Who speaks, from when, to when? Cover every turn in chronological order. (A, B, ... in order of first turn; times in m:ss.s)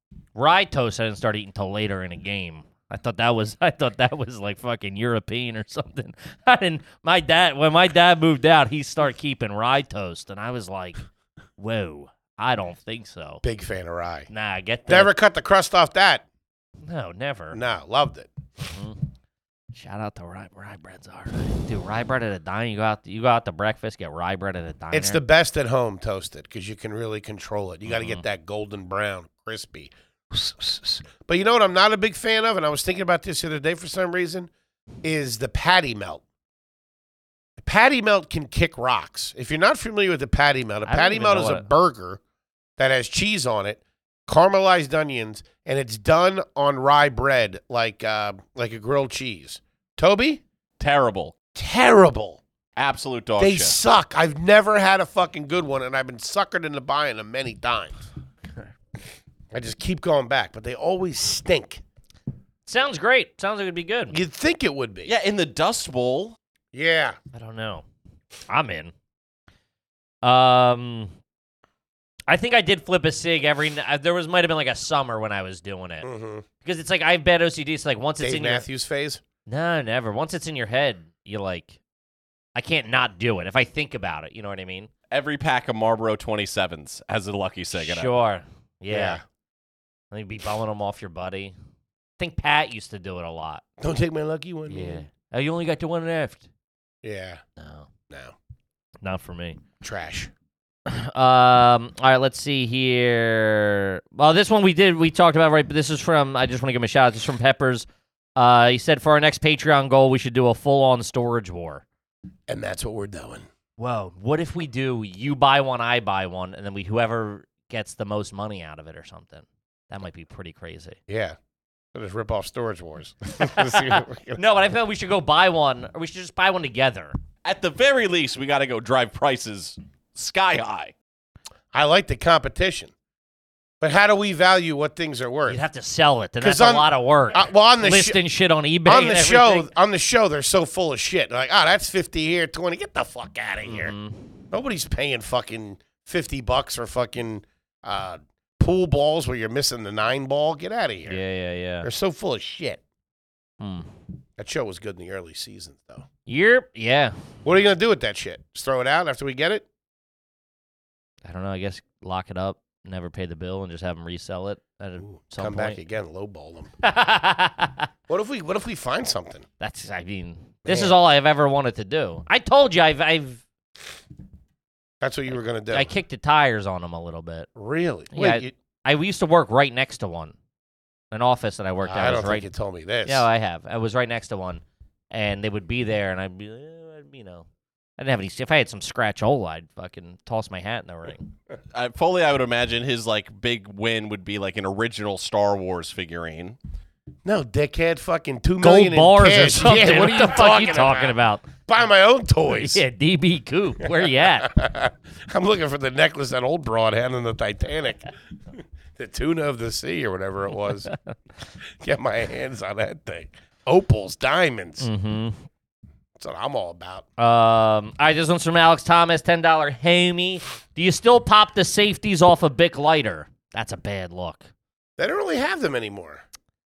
0:00.3-0:11.0 A
0:11.6-0:13.4 A
0:13.4-0:14.3 B
0:14.3-0:15.1 A
0:14.9-0:16.2 B
0:16.8-0:17.6 A
0:17.5-0:18.3 B
0:18.7-0:19.0 A
0:19.7-0:25.2 A
0:24.9-0:34.5 B
0:27.8-0:28.2 A
0:35.0-0:36.2 B
0:37.6-0:42.2 B
0:40.8-0:41.7 A
0:42.8-0:50.4 B
0:50.8-0:51.3 C
0:51.5-0:52.4 B
0:52.8-0:53.8 C
0:53.4-0:58.0 B
0:59.5-1:01.8 B
1:02.6-1:04.2 A
1:04.1-1:05.1 B
1:05.0-1:06.4 C
1:06.7-1:07.2 B
1:07.3-1:07.8 A
1:08.5-1:08.9 A
1:10.2-1:11.1 A
1:12.3-1:16.1 A
1:16.0-1:16.4 B
1:16.6-1:18.6 A
1:18.2-1:19.2 B
1:19.4-1:21.8 A
1:22.5-1:24.9 A
1:25.1-1:28.1 C
1:27.8-1:29.2 A
1:28.9-1:29.2 B
1:30.1-1:31.5 A
1:32.2-1:33.6 A
1:33.8-1:35.0 B
1:34.7-1:36.5 A
1:37.0-1:37.4 B
1:37.6-1:37.9 A
1:38.1-1:38.4 B
1:39.0-1:39.6 A
1:39.8-1:40.3 B
1:40.8-1:51.8 A
1:52.5-1:53.5 B
1:53.8-2:01.0 A
2:01.1-2:01.4 B
2:01.9-2:04.4 B
2:03.4-2:07.2 A
2:07.4-2:10.9 C
2:11.7-2:12.9 B
2:13.8-2:15.6 B
2:15.5-2:19.7 A
2:16.4-2:18.2 B
2:18.8-2:23.9 B
2:23.6-2:24.3 A
2:24.5-2:31.2 B
2:31.0-2:31.9 A
2:31.8-2:32.8 B
2:33.6-2:33.9 A
2:34.4-2:36.0 B
2:36.2-2:37.2 A
2:37.4-2:39.6 B
2:41.2-2:45.8 A
2:45.0-2:46.7 B
2:46.8-2:47.9 A
2:48.1-2:49.4 B
2:49.6-2:53.4 A
2:50.6-2:51.0 B
2:55.0-2:55.9 B
2:55.7-2:57.5 A
2:57.6-2:58.5 B
2:58.1-3:00.3 A
3:01.1-3:02.5 A
3:01.8-3:03.3 B
3:03.0-3:07.4 A
3:08.0-3:11.3 A
3:11.7-3:16.6 C
3:17.2-3:22.8 B
3:18.6-3:21.5 A
3:22.5-3:24.5 A
3:23.8-3:30.9 B
3:31.8-3:34.9 B
3:34.8-3:35.4 A
3:36.2-3:37.0 B
3:37.2-3:44.5 A
3:45.0-3:46.2 B